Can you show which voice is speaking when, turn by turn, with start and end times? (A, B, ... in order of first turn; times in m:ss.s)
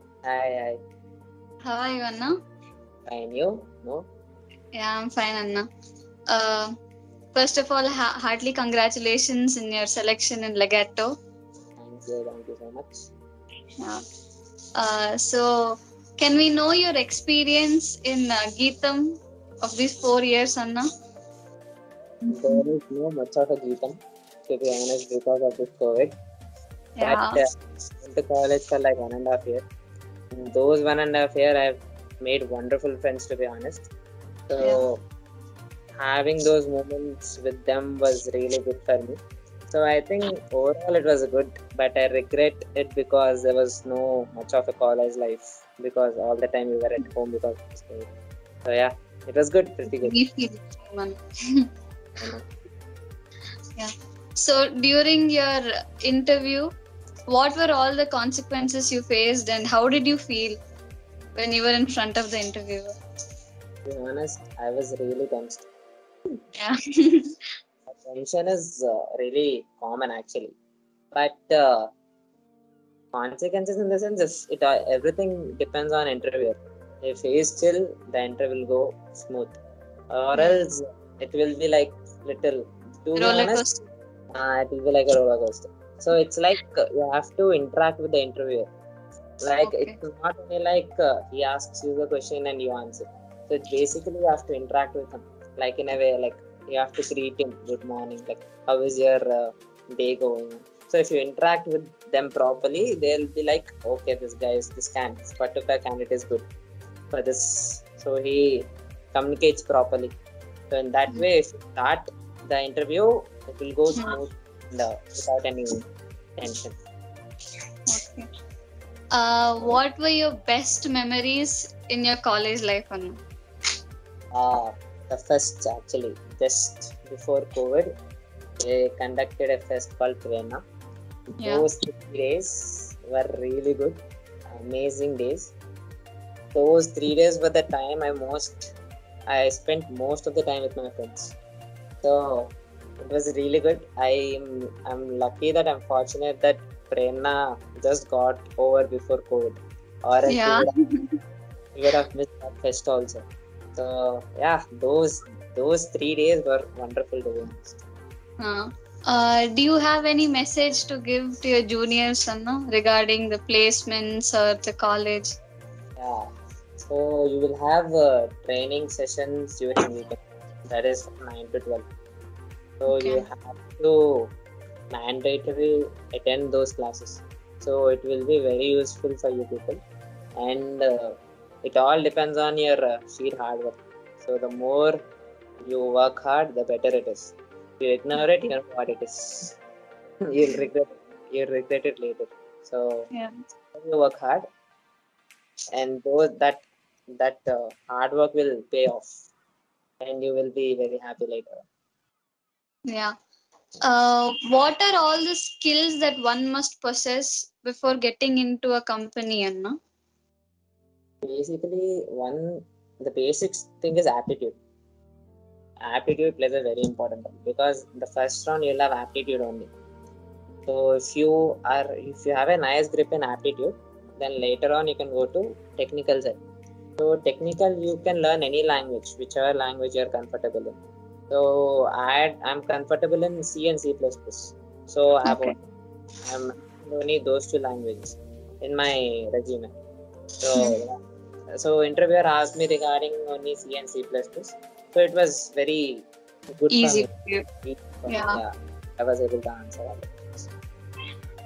0:00.2-0:00.8 A
0:01.6-0:02.3 B
0:03.1-0:04.0 A
0:04.8-0:05.6 B
0:06.3-0:06.7 B
0:07.3-0:11.1 B
0:11.8-0:13.1 A
0:14.8-0:15.4 B
0:16.2-0:19.0 B
0:19.6-0:20.8 B
0:22.2-0:22.7 B
0:22.3-0:24.0 A
0:24.5-0:26.2 A
0:27.0-0:27.4 B
0:27.0-0:27.5 A
0:28.0-0:29.6 A
0:30.3-0:33.9 A
0:34.5-0:35.0 A
0:36.0-0:39.2 A
0:39.7-0:48.1 A
0:48.6-0:50.2 A
0:50.0-0:51.2 B
0:53.8-0:56.7 B
0:57.3-1:00.6 B
1:01.4-1:02.9 B
1:03.8-1:05.6 A
1:06.6-1:07.2 B
1:07.9-1:10.6 A
1:11.1-1:11.9 A
1:13.1-1:19.6 A
1:20.1-1:23.6 A
1:20.4-1:20.6 B
1:23.2-1:23.8 B
1:24.3-1:28.7 A
1:29.4-1:46.5 A
1:29.6-1:29.9 B
1:47.1-1:50.2 A
1:50.7-1:55.8 A
1:56.4-1:56.8 A
1:57.9-1:58.2 B
1:59.1-2:03.2 B
2:04.3-2:07.9 A
2:08.6-2:10.6 A
2:11.4-2:15.5 A
2:11.4-2:11.7 B
2:16.5-2:18.7 A
2:19.3-2:21.4 A
2:22.0-2:30.6 A
2:30.3-2:30.6 B
2:31.7-2:37.8 A
2:38.4-2:45.4 B
2:46.0-2:50.2 A
2:50.7-2:51.9 A
2:52.8-2:54.3 A
2:52.9-2:53.2 B
2:54.9-2:59.8 A
3:00.4-3:05.0 A
3:05.6-3:09.6 A
3:10.2-3:13.1 A
3:13.7-3:14.4 A
3:15.7-3:16.6 A
3:17.2-3:19.1 A
3:20.0-3:21.6 A
3:23.8-3:29.7 B
3:31.2-3:34.6 A
3:35.8-3:39.7 A
3:40.7-3:46.4 A
3:47.0-3:50.8 A
3:51.3-3:55.6 A
3:55.2-3:55.6 B
3:56.3-3:59.7 A
4:00.4-4:01.0 A
4:01.6-4:07.1 A
4:06.7-4:07.4 B
4:07.6-4:10.1 A
4:08.1-4:08.4 B